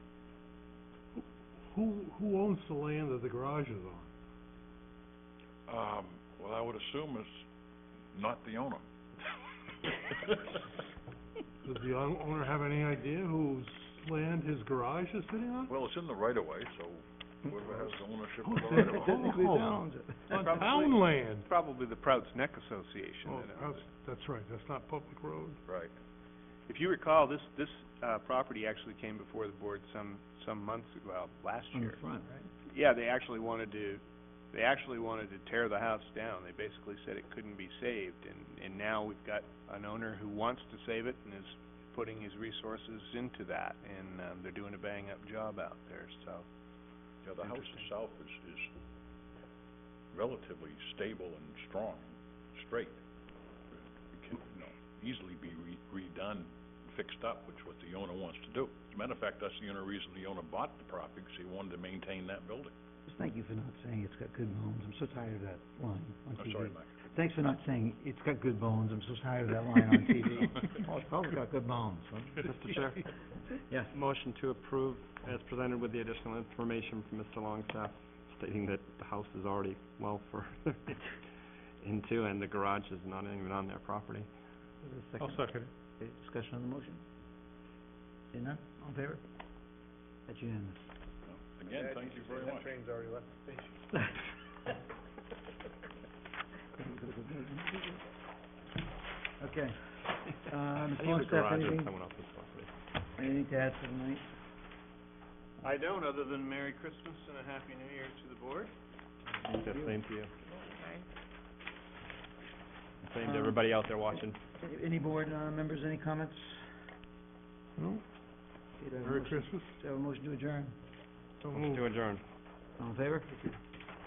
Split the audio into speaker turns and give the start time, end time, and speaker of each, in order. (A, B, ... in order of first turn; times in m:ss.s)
0:01.2-0:04.1 A
0:05.7-0:07.4 B
0:08.1-0:08.8 B
0:11.6-0:15.7 A
0:15.7-0:19.4 B
0:18.4-0:21.5 A
0:18.7-0:20.4 C
0:20.3-0:23.8 D
0:23.2-0:25.6 A
0:25.7-0:25.9 B
0:26.7-0:32.1 D
0:31.7-0:32.5 C
0:32.6-0:46.5 D
0:47.2-0:48.7 B
0:47.4-0:47.9 D
0:50.1-0:53.0 B
0:53.7-1:02.7 B
1:03.1-1:12.5 C
1:06.4-1:07.0 B
1:12.4-1:13.1 E
1:13.7-1:13.9 C
1:13.9-1:21.1 E
1:21.8-1:24.3 E
1:24.8-1:27.0 C
1:25.2-1:25.7 A
1:28.3-1:29.2 C
1:30.3-1:30.8 C
1:31.3-1:32.7 B
1:31.7-1:33.8 D
1:33.9-1:34.2 C
1:36.8-1:38.0 C
1:39.4-1:41.9 C
1:40.8-1:42.7 E
1:43.2-1:44.2 C
1:45.6-1:48.7 D
1:49.3-1:50.0 C
1:49.5-1:50.3 E
1:50.6-1:51.0 D
1:53.0-1:54.4 E
1:53.2-1:56.7 C
1:57.8-1:58.0 A
1:58.8-2:00.8 C
1:59.0-1:59.8 A
2:01.4-2:01.8 A
2:01.5-2:02.2 E
2:02.8-2:03.5 C